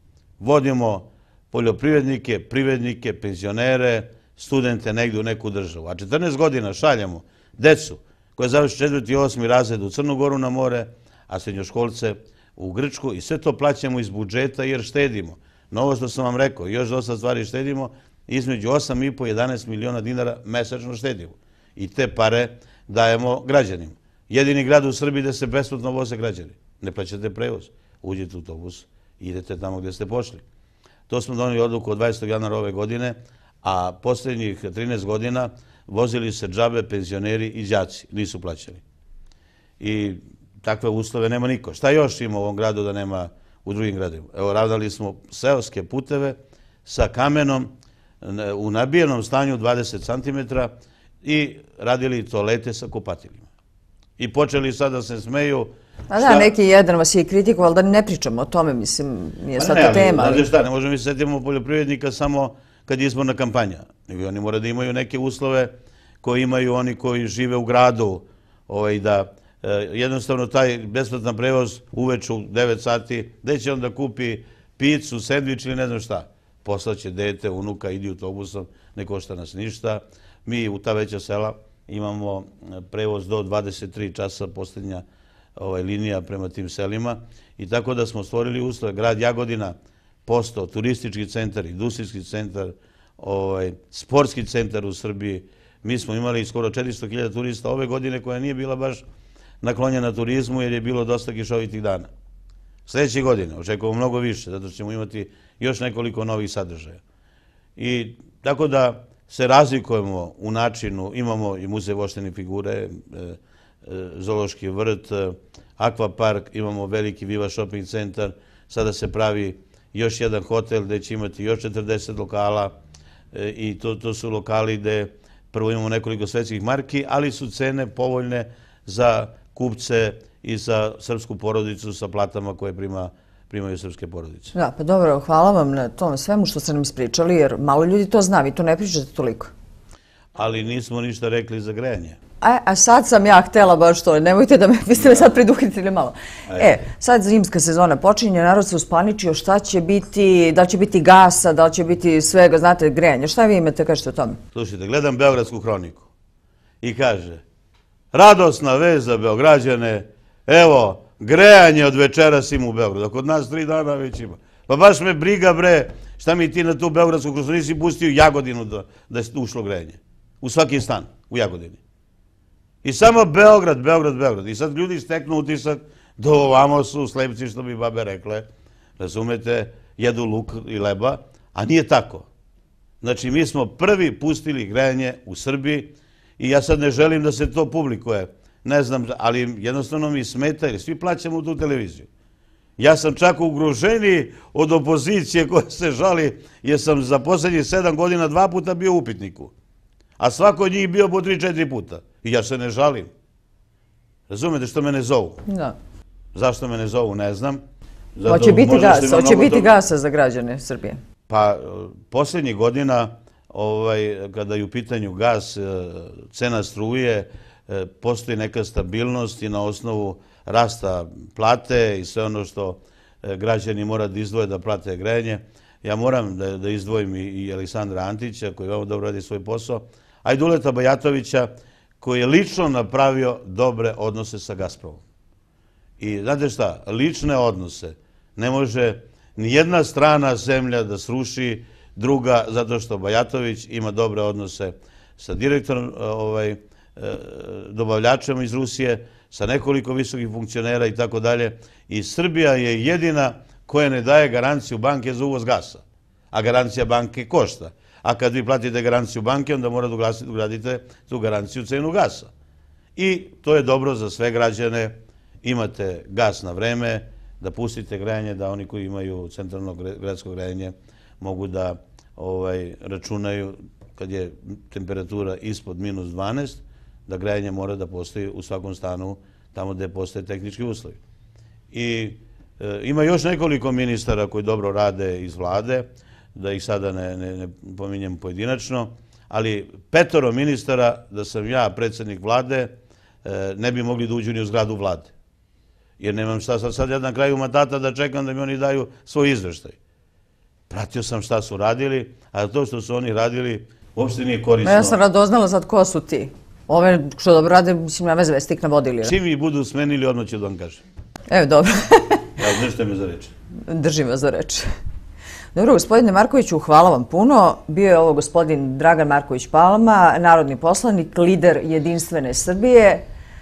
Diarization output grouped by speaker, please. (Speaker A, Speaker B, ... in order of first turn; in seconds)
Speaker A: 0.4-30.4, 31.1-38.8, 39.8-50.7, 51.2-53.5, 54.2-56.5, 59.5-65.7, 66.2-85.0, 85.5-89.7, 90.2-99.0, 99.6-102.1, 102.9-107.0, 107.8-122.7, 123.3-134.5, 140.3-142.2, 146.5-146.8, 154.5-156.1, 156.8-157.4, 158.1-171.8, 172.8-178.5, 179.0-182.3, 183.0-192.1, 192.8-199.5, 200.2-203.1, 204.3-205.4, 206.3-207.6, 208.2-209.7, 211.3-235.0, 236.0-262.3, 262.9-281.0, 281.7-292.7, 293.2-295.1, 296.0-299.8, 300.7-305.0, 309.0-310.8, 312.4-313.3
Speaker B: 56.1-60.5, 134.5-139.5, 142.4-154.4, 205.5-205.8, 208.3-211.0, 304.6-309.1, 311.3-312.3, 313.7-314.7, 315.5-323.0